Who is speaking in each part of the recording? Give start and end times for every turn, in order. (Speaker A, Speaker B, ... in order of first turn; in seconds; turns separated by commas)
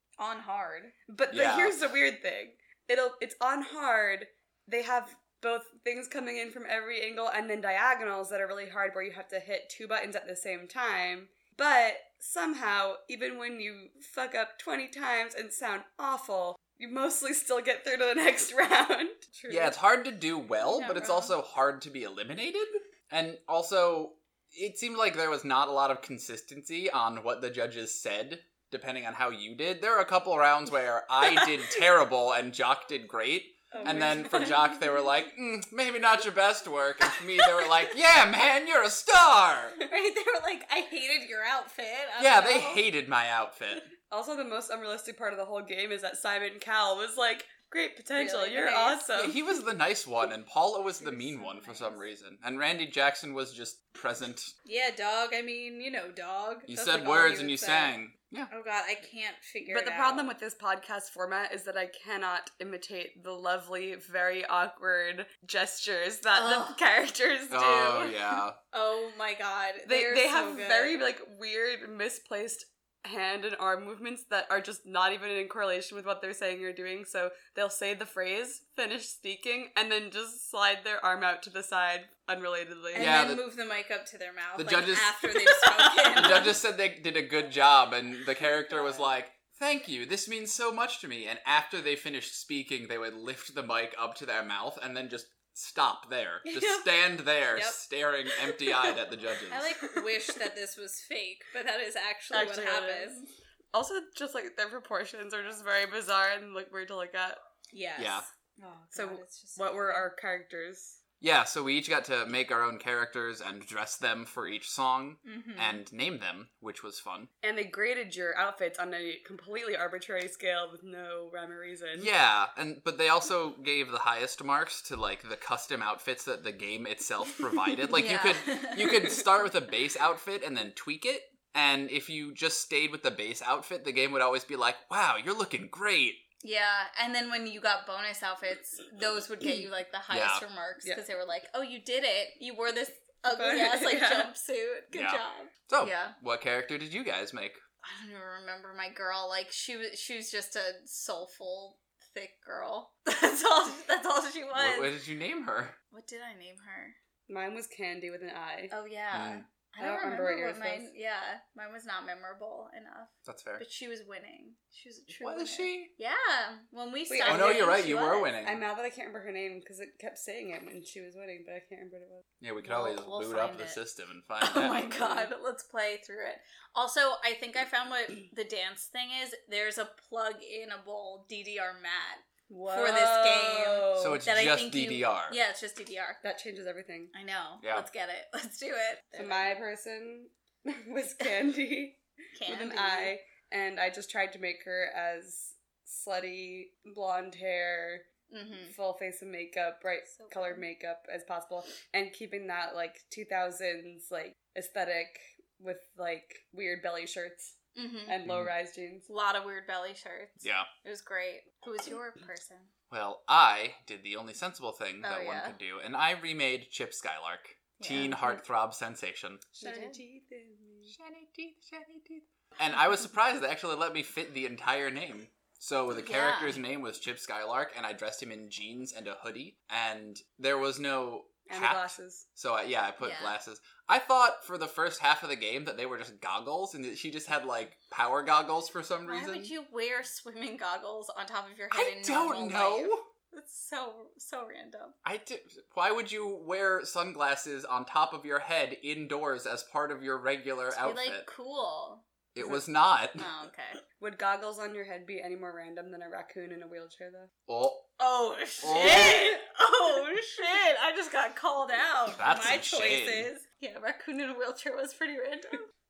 Speaker A: 0.2-0.9, Speaker B: 1.1-19.4, Speaker C: 1.3-1.8, Speaker C: 19.5-39.8, Speaker A: 20.6-21.3, Speaker A: 33.7-34.6, Speaker B: 33.8-34.6, Speaker A: 39.8-42.9, Speaker C: 42.2-43.9, Speaker B: 44.1-49.4, Speaker A: 48.1-49.1, Speaker C: 49.1-54.5, Speaker A: 51.0-52.0, Speaker A: 54.6-58.0, Speaker C: 56.7-58.5, Speaker A: 58.5-60.3, Speaker B: 59.7-68.2, Speaker A: 66.3-66.8, Speaker C: 67.5-68.6, Speaker A: 68.7-71.0, Speaker B: 69.8-83.1, Speaker A: 82.9-86.5, Speaker C: 83.0-83.4, Speaker C: 84.5-85.2, Speaker B: 85.4-86.3, Speaker C: 86.1-99.7, Speaker A: 96.4-96.9, Speaker A: 99.5-103.2, Speaker B: 102.3-107.4, Speaker A: 107.7-110.1, Speaker C: 108.0-108.3, Speaker B: 108.9-111.0, Speaker C: 111.2-117.3, Speaker A: 115.2-115.8, Speaker B: 117.4-122.1, Speaker C: 122.0-136.2, Speaker A: 127.9-129.2, Speaker A: 136.4-146.1, Speaker C: 140.1-140.4, Speaker B: 143.3-144.3, Speaker C: 144.9-147.6, Speaker A: 147.8-154.9, Speaker C: 154.5-155.8, Speaker A: 155.9-156.9, Speaker B: 157.3-158.7, Speaker A: 158.7-168.3, Speaker C: 159.1-159.4, Speaker B: 159.8-160.9, Speaker C: 163.2-163.6, Speaker C: 165.2-165.9, Speaker B: 167.1-167.8, Speaker C: 167.2-168.6, Speaker B: 168.4-172.2, Speaker C: 172.4-175.0, Speaker A: 172.6-173.8, Speaker A: 174.4-186.2, Speaker B: 182.5-184.2, Speaker C: 183.9-185.3, Speaker B: 186.2-187.1, Speaker A: 187.1-189.6, Speaker C: 187.6-187.9, Speaker B: 189.2-198.1, Speaker A: 192.3-193.1, Speaker A: 198.3-198.7, Speaker B: 198.7-209.1, Speaker A: 200.1-200.6, Speaker A: 207.7-208.2, Speaker C: 208.2-208.5, Speaker A: 209.1-212.7, Speaker C: 210.4-210.7, Speaker C: 212.9-219.5, Speaker A: 215.0-215.6, Speaker A: 217.8-218.4, Speaker B: 219.6-220.9, Speaker A: 219.6-220.0, Speaker C: 220.9-239.5, Speaker A: 225.9-226.6, Speaker B: 231.5-232.2, Speaker A: 233.0-233.3, Speaker A: 239.1-244.9, Speaker C: 241.7-243.1, Speaker C: 245.0-251.3, Speaker A: 250.7-252.1, Speaker C: 252.3-253.3, Speaker A: 253.2-253.8, Speaker B: 254.0-257.3, Speaker C: 257.5-257.9, Speaker A: 258.0-265.7, Speaker C: 258.6-259.3, Speaker C: 262.1-263.3